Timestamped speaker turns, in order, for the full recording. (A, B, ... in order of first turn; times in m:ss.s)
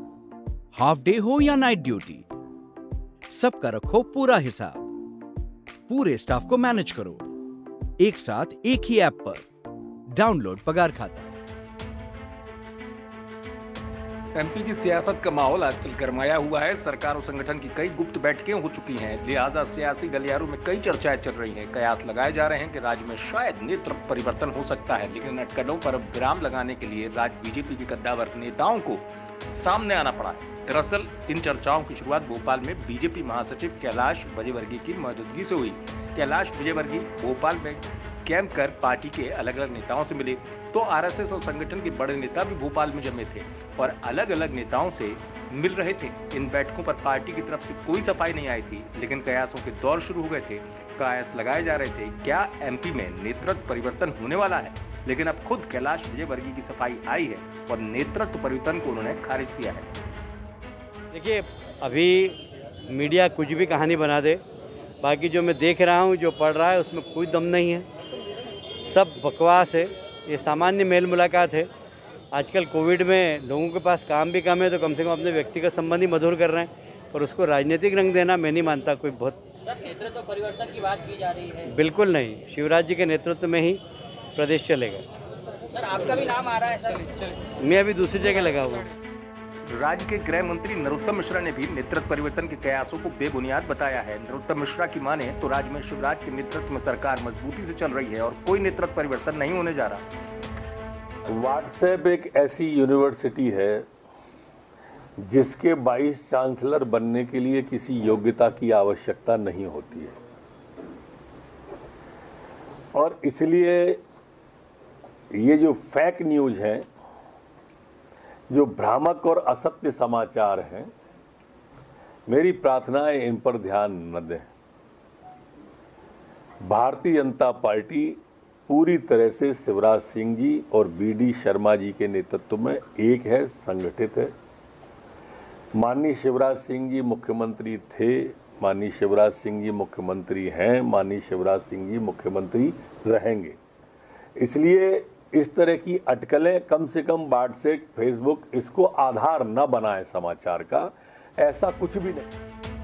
0:00.7-0:02.2 A
0:03.3-0:04.8 A
0:05.9-0:07.3 A
0:08.0-0:09.4 A
0:10.1-0:11.3 A
0:14.3-0:59.9 B
1:01.1-1:04.4 C
1:05.0-1:07.9 C
1:08.8-1:11.7 C
1:12.3-1:23.8 C
1:19.9-1:21.3 D
1:24.3-1:25.1 C
1:25.8-1:26.9 D
1:26.2-1:28.9 C
1:29.7-1:40.0 B
1:41.3-1:43.8 E
1:45.2-1:50.1 E
1:52.9-1:54.0 E
1:55.3-1:56.9 E
1:58.5-2:00.9 E
2:02.3-2:04.5 E
2:06.6-2:14.3 E
2:15.7-2:23.6 E
2:24.4-2:32.3 E